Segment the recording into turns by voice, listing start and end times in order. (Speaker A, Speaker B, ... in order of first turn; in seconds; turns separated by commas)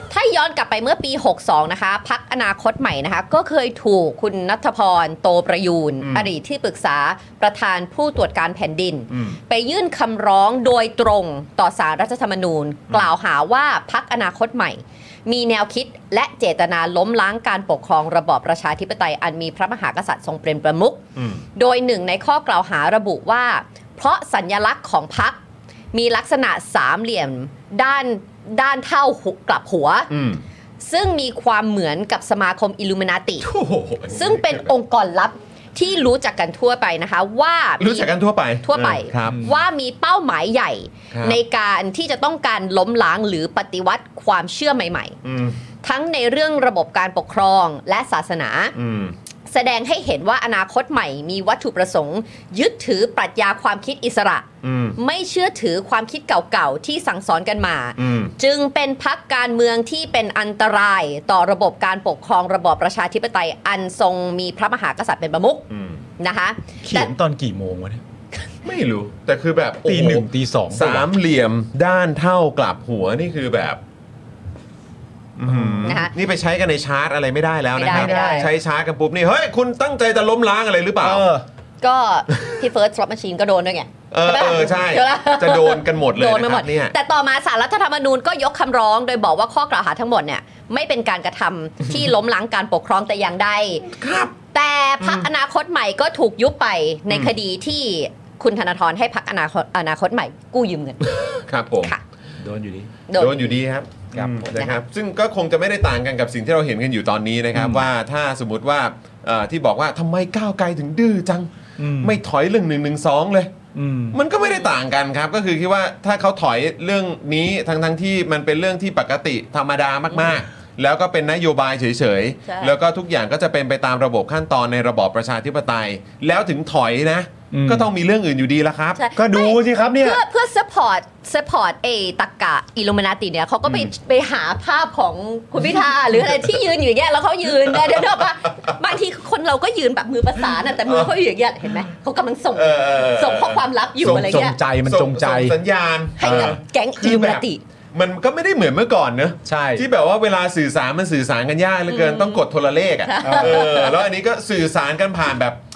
Speaker A: 0.1-21.0, Speaker B: 6.0-6.3, Speaker B: 9.1-9.4, Speaker B: 21.2-21.4, Speaker A: 21.6-25.4, Speaker A: 25.9-30.1, Speaker B: 30.1-30.4, Speaker A: 30.8-33.5, Speaker B: 33.4-34.7, Speaker A: 34.1-38.1, Speaker B: 37.8-39.5, Speaker A: 38.7-45.2, Speaker C: 39.3-39.6, Speaker B: 41.1-41.4, Speaker B: 45.2-45.6, Speaker A: 45.8-48.7, Speaker B: 48.8-49.1, Speaker A: 49.5-54.5, Speaker B: 54.6-55.0, Speaker A: 55.0-65.7, Speaker B: 58.0-58.3, Speaker B: 65.7-66.0, Speaker A: 66.2-67.1, Speaker C: 66.8-68.0, Speaker B: 68.6-73.8, Speaker C: 69.9-71.1, Speaker B: 75.4-81.3, Speaker C: 75.5-75.9, Speaker A: 75.8-76.1, Speaker A: 77.8-78.5, Speaker C: 77.9-78.5, Speaker C: 81.0-81.5, Speaker A: 81.8-93.9, Speaker B: 84.1-86.9, Speaker B: 93.8-94.4, Speaker A: 94.5-102.0, Speaker B: 95.0-95.3, Speaker B: 101.2-102.0, Speaker C: 102.4-102.9, Speaker A: 103.1-103.6, Speaker B: 103.1-113.5, Speaker C: 104.1-104.5, Speaker C: 107.5-107.8, Speaker C: 111.8-112.2, Speaker C: 113.8-114.2, Speaker B: 114.1-129.0, Speaker A: 114.4-114.7, Speaker A: 122.5-122.7, Speaker C: 127.5-127.9, Speaker A: 129.0-144.6, Speaker C: 129.2-130.2, Speaker B: 133.7-133.9, Speaker B: 137.7-138.0, Speaker B: 140.8-141.1, Speaker B: 142.5-155.6, Speaker C: 144.0-145.6, Speaker A: 146.2-147.6, Speaker C: 146.2-146.6, Speaker C: 149.4-149.9, Speaker A: 151.9-152.4, Speaker A: 153.1-154.0, Speaker C: 153.2-153.7